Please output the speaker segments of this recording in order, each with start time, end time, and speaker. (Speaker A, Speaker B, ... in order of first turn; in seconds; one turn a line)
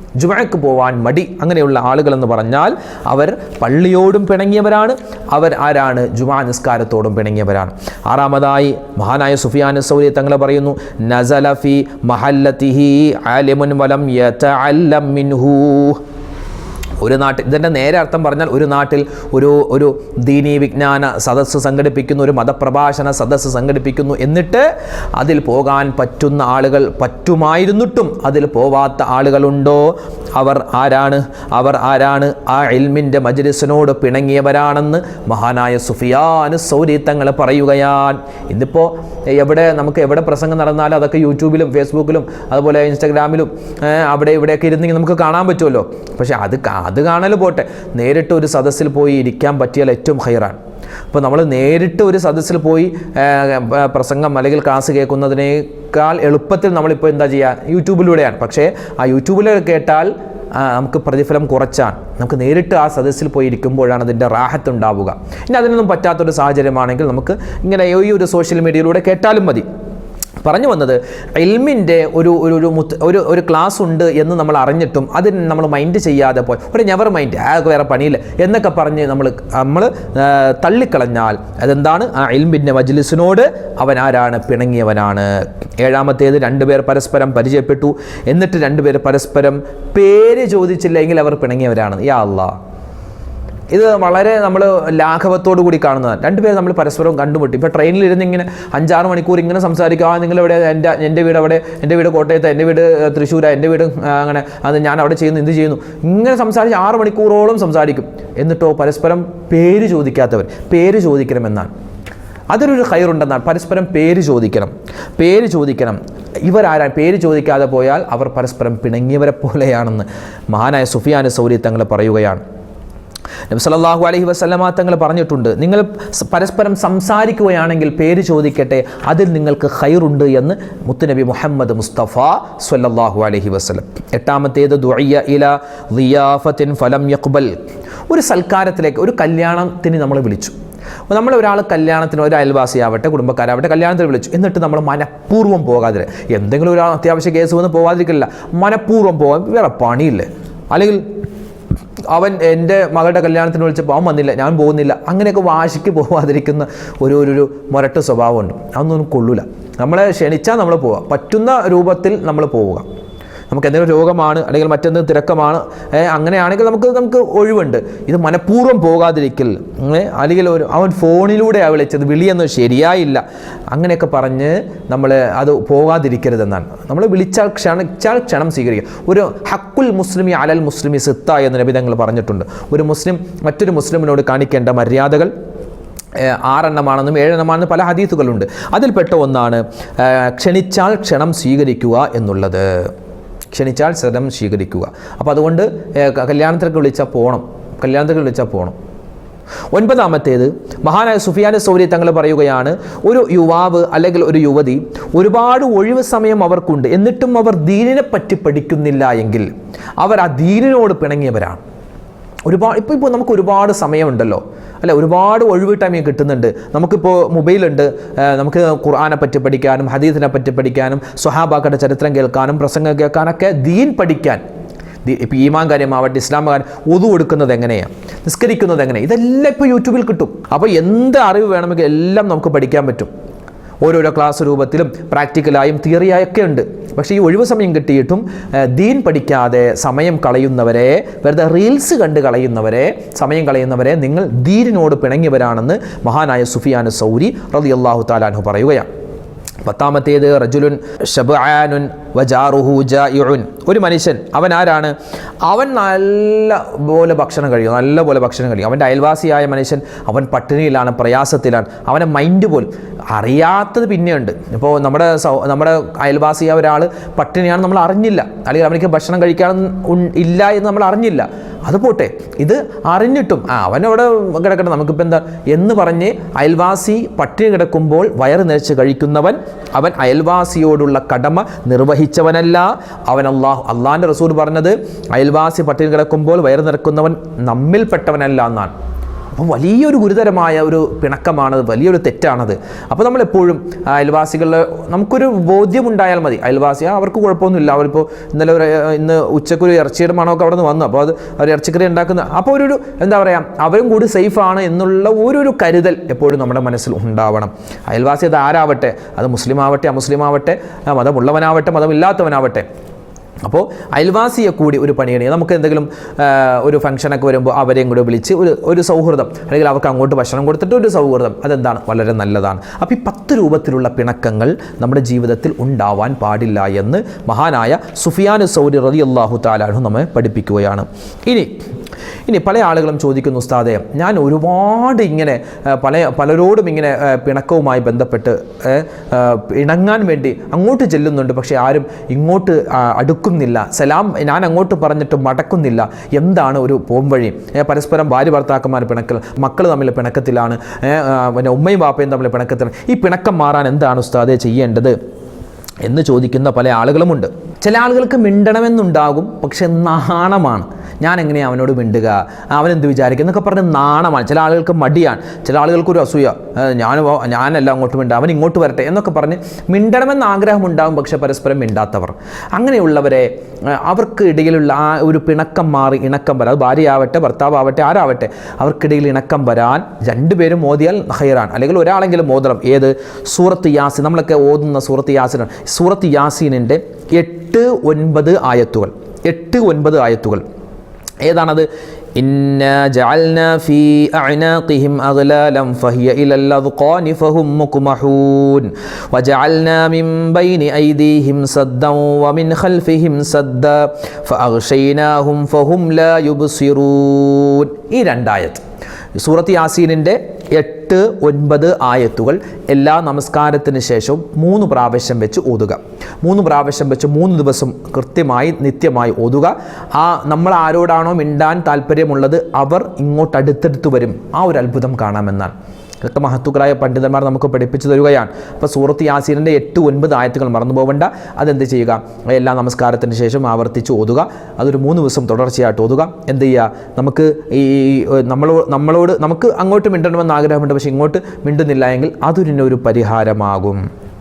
Speaker A: 0.2-16.0
Speaker A: 17.0-50.6
Speaker A: 51.1-69.6
Speaker A: 70.4-92.5
Speaker A: 93.7-111.7
Speaker A: 112.5-122.4
Speaker A: 123.5-137.6
Speaker A: 138.1-140.5
Speaker A: 141.1-151.0
Speaker A: 152.1-162.8
Speaker A: 163.5-185.3
Speaker A: 186.2-192.9
Speaker A: 193.5-198.7
Speaker A: 199.7-209.5
Speaker A: 210.0-211.6
Speaker A: 212.4-224.4
Speaker A: 225.0-233.1
Speaker A: 233.8-248.9
Speaker A: 249.6-254.9
Speaker A: 255.4-288.7
Speaker A: 289.3-312.6
Speaker A: 313.4-331.5
Speaker A: 332.3-354.9
Speaker A: 355.8-390.4
Speaker A: 391.2-408.6
Speaker A: 409.1-443.8